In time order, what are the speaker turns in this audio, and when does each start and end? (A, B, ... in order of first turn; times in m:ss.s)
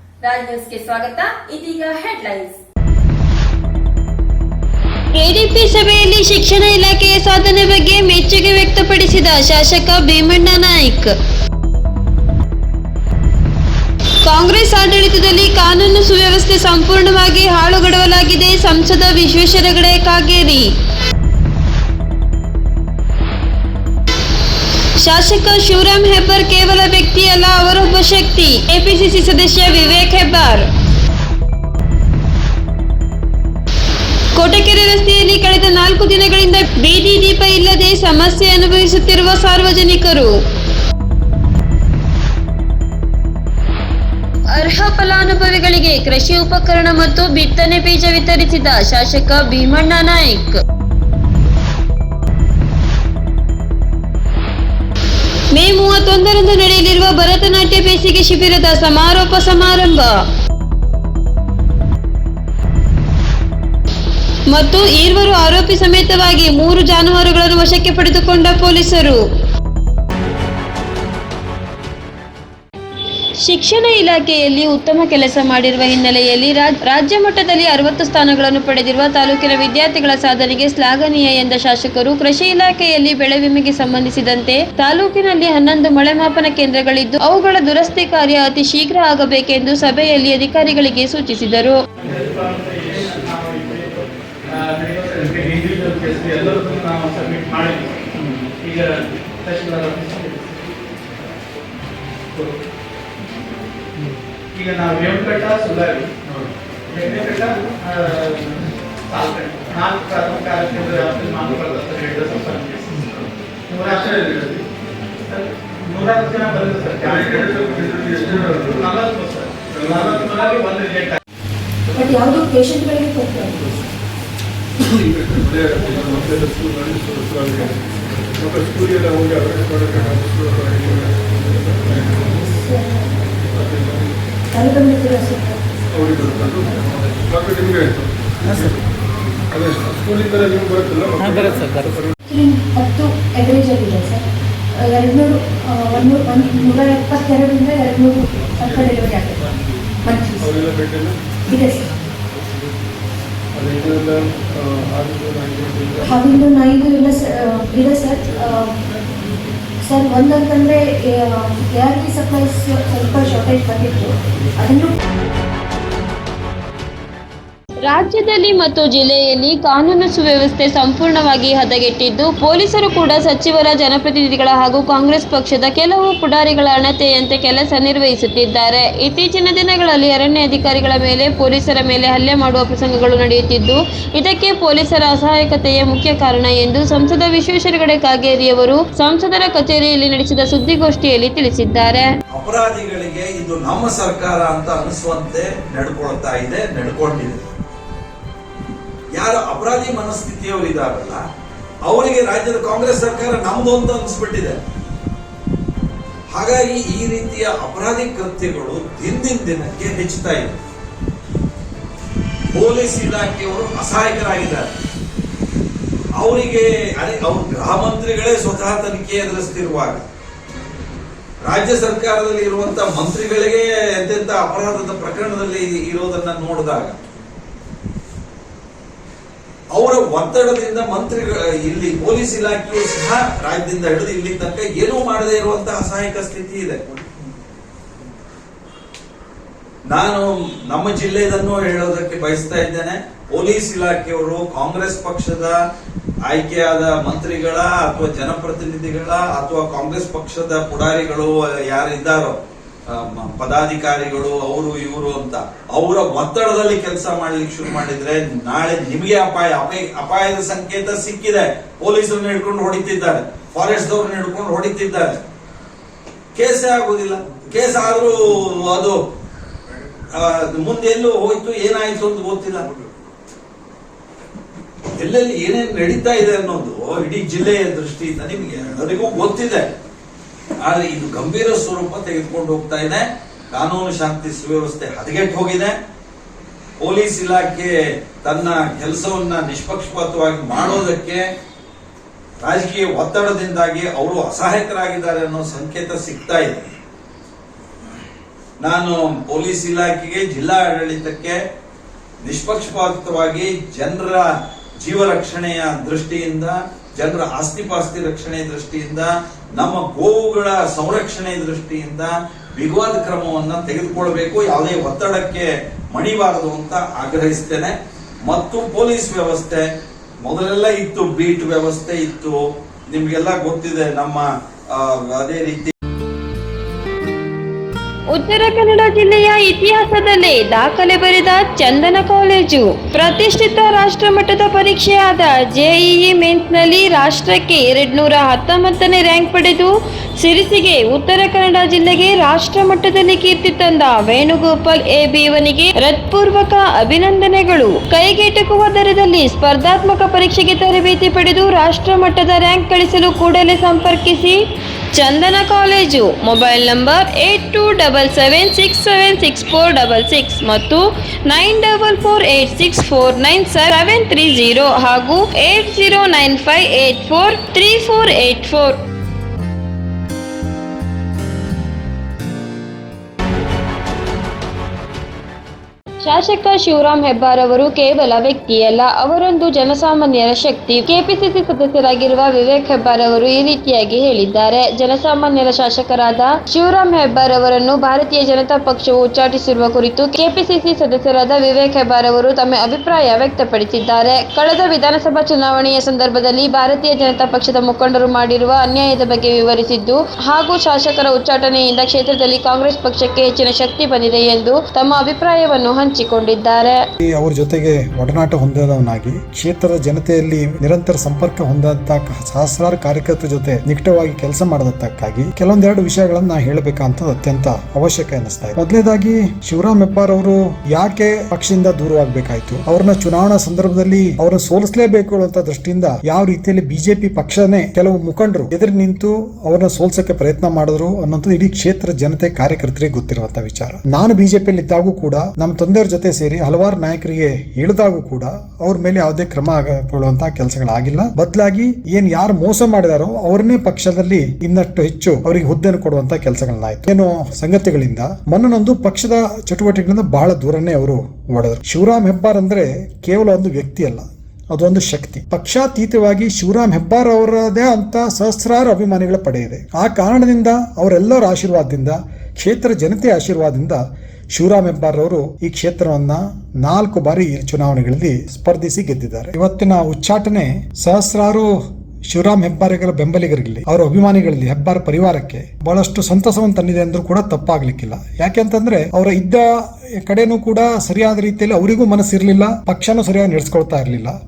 0:00.2-0:02.5 A
0:05.1-0:11.1 B
0:14.2-0:20.7 B
0:25.0-0:30.7 B
0:34.3-0:40.4 B
0:44.5-0:50.6 B
0:55.5-1:00.2 B
1:04.5-1:09.2 B
1:13.4-1:31.8 B
1:32.0-1:38.0 C
1:38.6-1:40.7 C
1:44.5-1:46.1 C
1:46.9-1:48.6 C
1:49.1-1:53.1 C
1:53.0-1:53.3 D
1:53.7-1:54.3 C
1:53.9-1:54.6 D
1:55.2-2:01.2 C
1:57.0-1:58.9 D
1:59.7-2:00.4 D
2:01.9-2:03.7 E
2:05.0-2:12.3 D
2:12.5-2:13.1 E
2:13.5-2:14.1 D
2:14.5-2:15.6 E
2:15.9-2:18.8 D
2:19.5-2:22.0 D
2:22.3-2:24.2 E
2:24.8-2:29.4 E
2:30.0-2:30.5 E
2:30.4-2:31.2 D
2:31.5-2:31.9 E
2:33.5-2:36.4 D
2:36.0-2:38.8 E
2:39.8-2:44.9 E
2:47.8-3:12.1 B
3:12.3-3:17.4 F
3:19.1-3:21.2 F
3:21.8-3:24.6 F
3:26.3-3:30.6 F
3:32.5-3:34.7 F
3:36.2-3:40.0 F
3:41.4-3:46.9 F
3:49.7-3:56.8 F
3:59.9-4:05.6 F
4:06.3-4:12.4 F
4:12.9-4:25.2 F
4:26.3-4:29.0 F
4:30.2-4:32.7 F
4:35.0-4:39.6 F
4:40.6-4:45.7 F
4:46.8-4:51.2 F
4:52.4-4:56.7 F
4:58.6-5:01.4 F
5:02.2-5:04.3 F
5:04.8-5:17.7 F
5:18.3-5:19.6 F
5:20.2-5:22.4 F
5:22.9-5:25.7 F
5:28.1-5:54.4 B
5:54.9-6:08.8 B
6:16.0-6:46.8 B
6:47.0-7:43.8 G
7:44.3-7:51.6 G
7:52.1-8:04.1 G